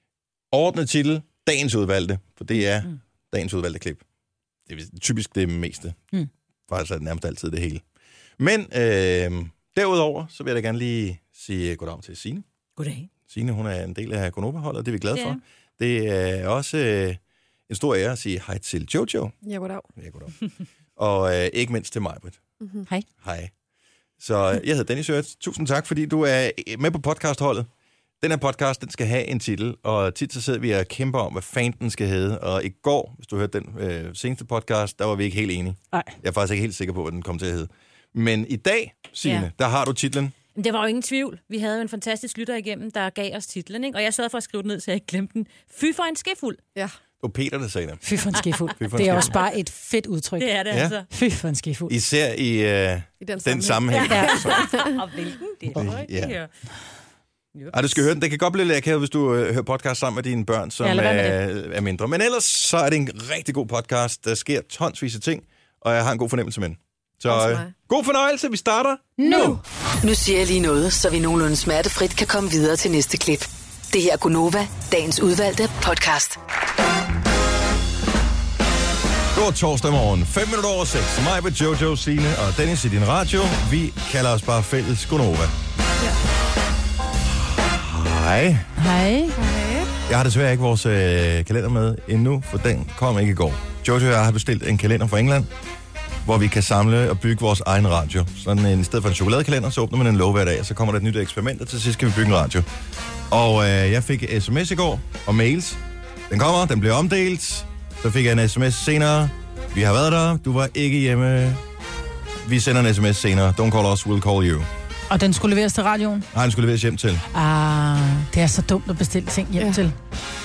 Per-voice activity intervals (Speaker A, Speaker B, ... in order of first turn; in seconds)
Speaker A: 0.5-4.0, 4.7-6.1, 6.7-7.8, 8.4-12.4, 13.3-19.3, 19.9-20.3, 21.0-22.4, 23.2-23.5, 24.2-27.7, 28.2-40.3, 47.2-48.0, 48.8-49.3, 50.7-51.0, 51.9-54.6, 55.7-56.3, 57.7-69.5, 79.3-85.5, 87.4-88.7, 90.1-95.5, 96.2-102.7, 103.3-105.8, 106.3-111.6, 112.4-114.7, 116.3-117.2
Speaker B: 12.8-13.1, 15.1-15.4, 40.5-46.6, 50.4-51.1, 54.1-56.5, 57.5-58.0
Speaker C: 19.4-19.9, 22.6-22.9, 53.2-55.0, 67.3-67.7, 69.3-69.6
Speaker D: 48.0-50.5, 51.1-51.9, 54.1-54.4, 60.8-61.4, 69.2-69.6, 88.8-89.4, 115.1-116.3, 117.3-120.0
Speaker E: 70.0-76.4